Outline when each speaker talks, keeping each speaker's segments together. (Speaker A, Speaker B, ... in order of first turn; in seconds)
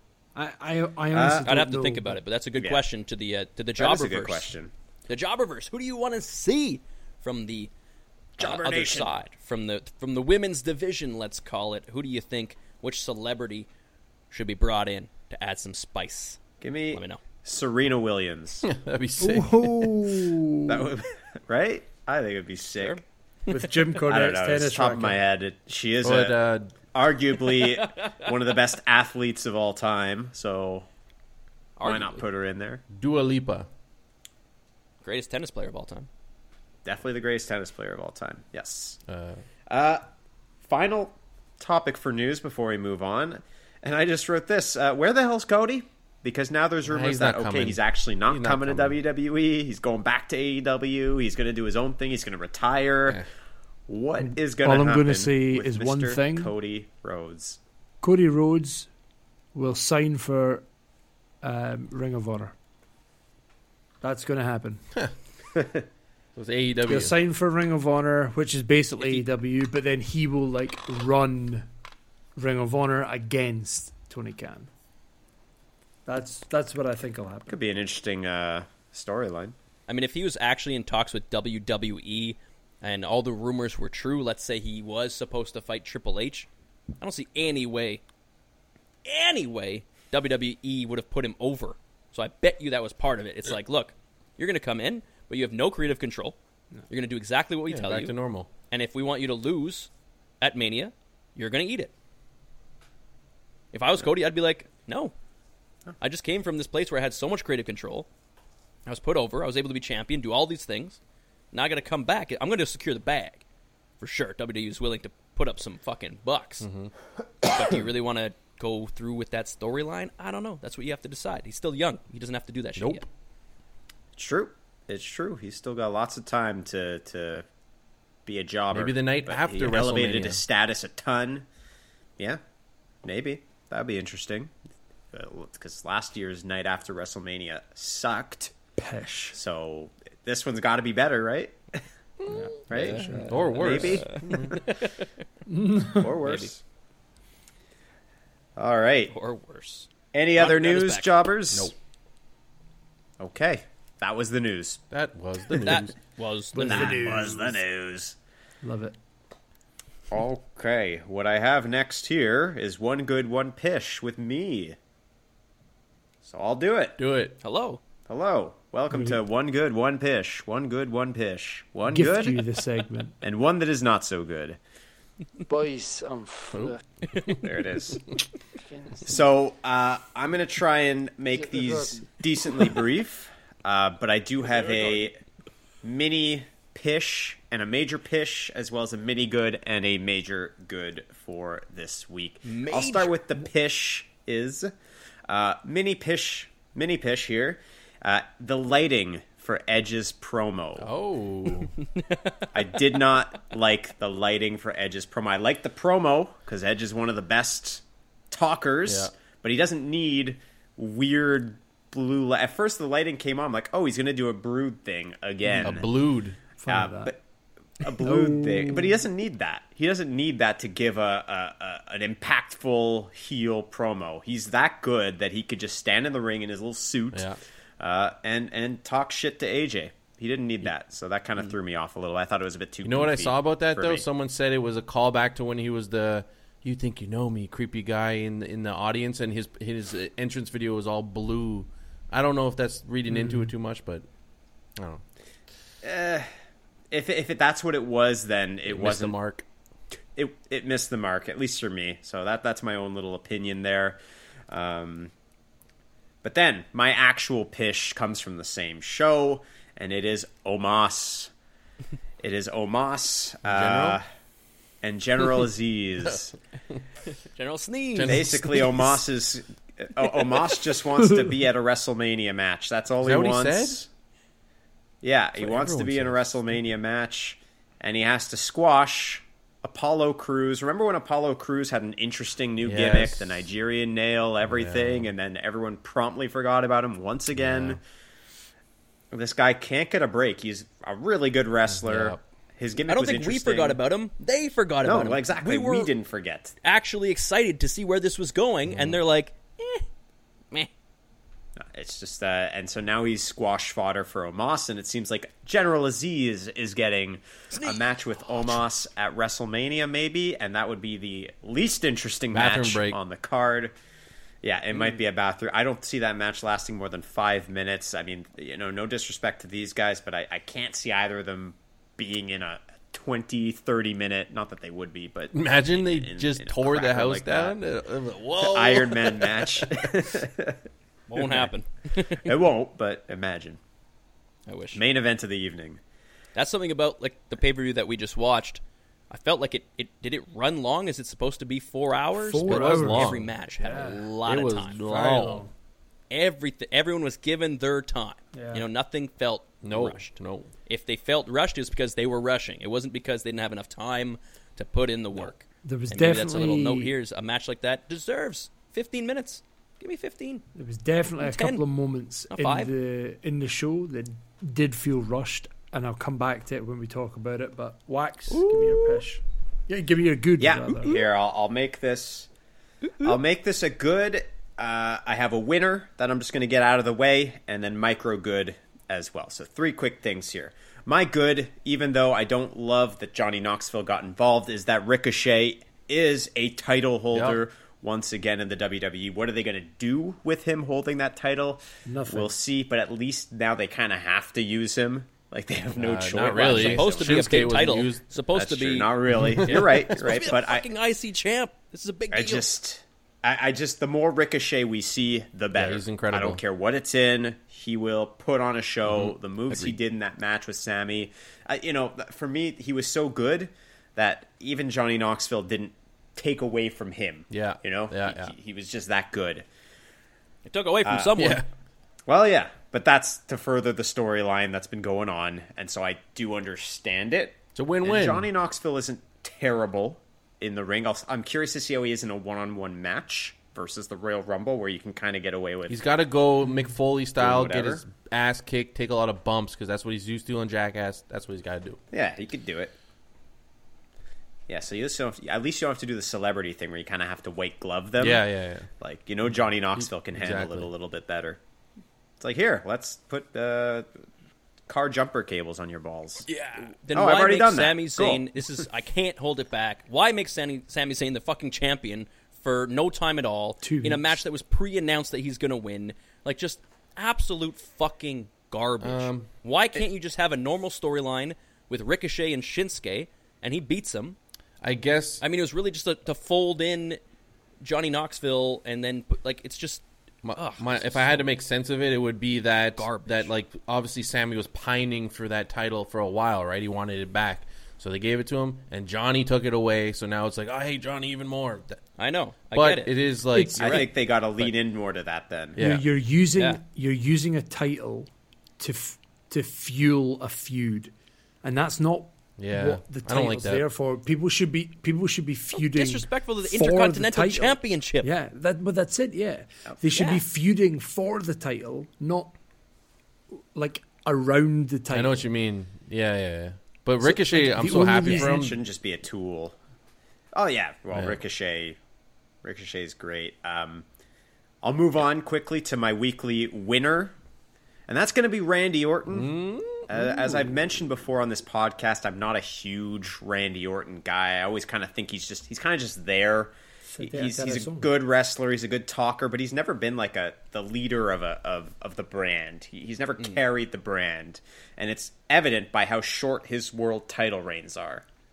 Speaker A: 0.3-2.2, 19.2-20.9, 23.5-25.2, 54.2-56.5, 58.0-58.9, 59.5-60.6, 61.4-62.5, 64.0-64.8, 66.8-71.7, 72.3-74.7, 76.0-77.5, 138.8-139.4, 142.3-144.0, 145.5-146.2, 156.5-157.6, 158.6-158.9, 168.9-169.2, 171.9-173.1, 216.6-217.1, 218.0-219.0, 243.1-243.5, 342.2-344.1, 344.8-345.5, 348.3-348.6, 355.6-356.9, 360.5-370.9, 391.9-392.3, 463.6-464.2, 495.6-512.3, 513.5-515.2, 517.0-518.5, 536.9-537.9
Speaker B: 1.1-1.5, 2.6-2.8, 3.8-4.7, 8.4-9.1, 16.6-18.7, 20.7-23.0, 24.1-26.4, 26.9-30.9, 31.8-32.8, 36.8-39.0, 39.7-40.0, 40.6-53.2, 53.9-57.6, 77.5-79.5, 124.2-127.5, 128.2-131.4, 133.0-134.5, 135.1-138.5, 139.3-141.8, 142.7-144.7, 145.9-146.6, 148.6-149.1, 150.1-151.7, 153.2-154.8, 156.6-158.2, 160.1-164.8, 166.2-167.0, 168.1-172.5, 173.2-174.6, 177.4-178.1, 179.1-185.2, 185.8-194.7, 195.3-200.9, 202.5-215.9, 216.7-217.2, 217.8-234.0, 245.8-246.3, 246.9-249.2, 250.2-254.0, 254.5-255.1, 256.2-261.3, 262.2-264.0, 264.8-266.4, 268.1-273.9, 275.0-287.8, 289.1-293.8, 294.8-296.5, 301.6-313.7, 314.4-327.6, 328.4-330.6, 332.2-333.6, 334.7-335.8, 370.4-372.3, 373.0-397.6, 398.3-400.6, 402.1-419.4, 422.1-435.8, 437.2-437.8, 441.9-442.7, 444.5-451.4, 452.2-453.9, 454.7-456.3, 456.9-458.3, 493.6-495.6, 517.8-519.5, 520.3-521.8, 522.4-523.8, 524.6-527.1, 527.9-529.3, 529.9-548.0
Speaker C: 1.4-4.5, 5.1-7.7, 8.4-13.7, 14.3-16.4, 16.9-17.2, 27.6-28.3, 31.8-32.2, 35.0-36.1, 79.9-86.5, 87.0-88.0, 89.0-96.3, 96.9-98.1, 98.7-99.9, 100.4-101.9, 103.7-105.1, 106.0-108.1, 108.8-111.0, 111.5-113.4, 114.0-116.7, 117.4-123.0, 143.8-145.2, 149.1-151.2, 155.6-157.3, 167.4-167.8, 184.4-185.1, 192.4-193.1, 201.9-202.5, 267.3-268.3, 292.9-295.9, 296.6-299.9, 307.5-307.8, 331.1-332.3, 334.5-334.8, 336.3-344.8, 346.1-350.1, 350.6-360.4, 361.2-361.6, 362.3-362.7, 368.3-369.0, 372.9-373.1, 396.5-398.9, 399.4-402.4, 420.4-421.4, 456.3-474.2, 475.2-477.0, 477.6-481.2, 482.8-483.3, 492.0-494.5, 496.3-496.6, 505.5-508.1, 509.9-510.2
Speaker D: 18.6-20.1, 26.0-26.7, 32.9-33.7, 39.1-39.4, 46.8-49.0, 66.3-67.1, 97.7-98.5, 116.6-116.9, 122.8-123.0, 128.7-130.4, 142.3-144.5, 154.9-155.9, 167.0-167.4, 176.5-177.4, 200.8-201.7, 208.8-209.1, 215.5-216.4, 227.1-227.4, 232.8-244.0, 244.8-245.0, 248.6-249.4, 263.5-264.0, 267.9-268.7, 273.0-273.8, 275.4-276.3, 282.6-283.4, 284.4-285.1, 287.3-287.8, 291.7-292.2, 298.7-299.0, 312.3-313.0, 325.3-330.1, 331.1-331.5, 342.4-343.3, 344.2-345.4, 349.6-350.5, 387.1-387.4, 395.7-398.0, 399.1-399.9, 405.5-406.4, 408.9-409.8, 417.3-418.3, 421.2-421.4, 427.5-428.3, 435.7-441.8, 448.0-448.7, 449.8-450.7, 468.8-469.3, 474.6-475.2, 480.2-491.8, 492.5-493.9, 495.6-495.8, 502.4-503.6, 514.9-518.5, 520.9-521.2, 529.1-530.6
Speaker E: 175.5-176.8, 178.7-179.1, 181.3-182.1